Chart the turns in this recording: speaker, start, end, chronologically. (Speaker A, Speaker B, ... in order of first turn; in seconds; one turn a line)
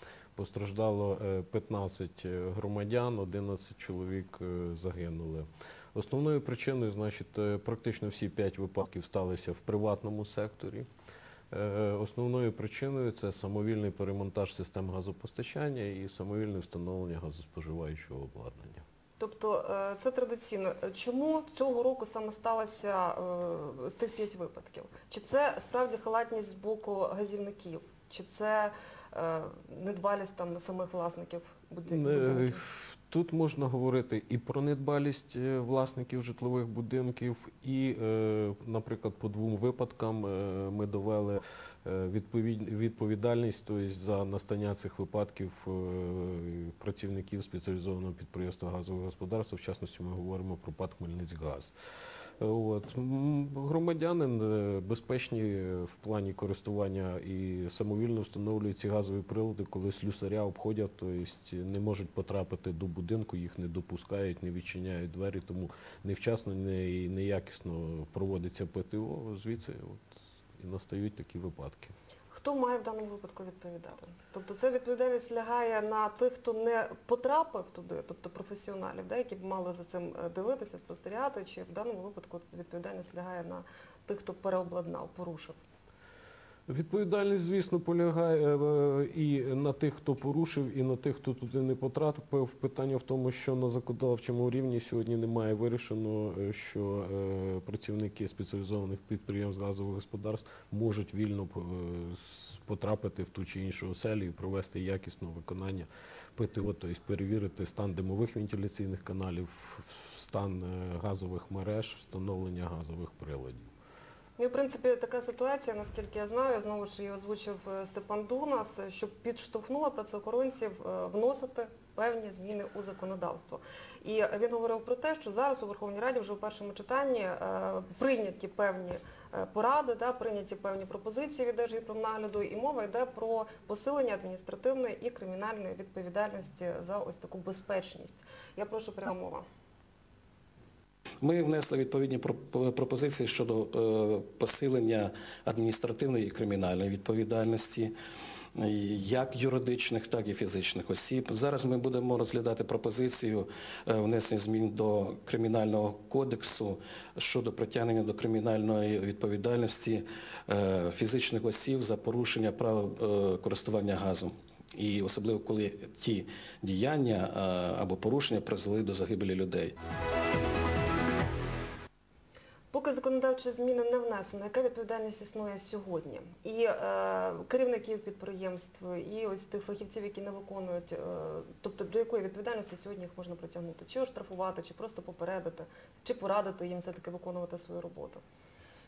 Speaker A: 0.4-10.9
Speaker A: 11.5-18.8
Speaker B: 19.2-32.6
Speaker A: 31.9-51.7
Speaker A: 52.4-71.9
Speaker B: 72.3-85.6
Speaker A: 86.7-113.7
Speaker B: 114.4-139.4
Speaker C: 141.2-147.9
Speaker C: 148.5-169.8
Speaker B: 172.7-188.2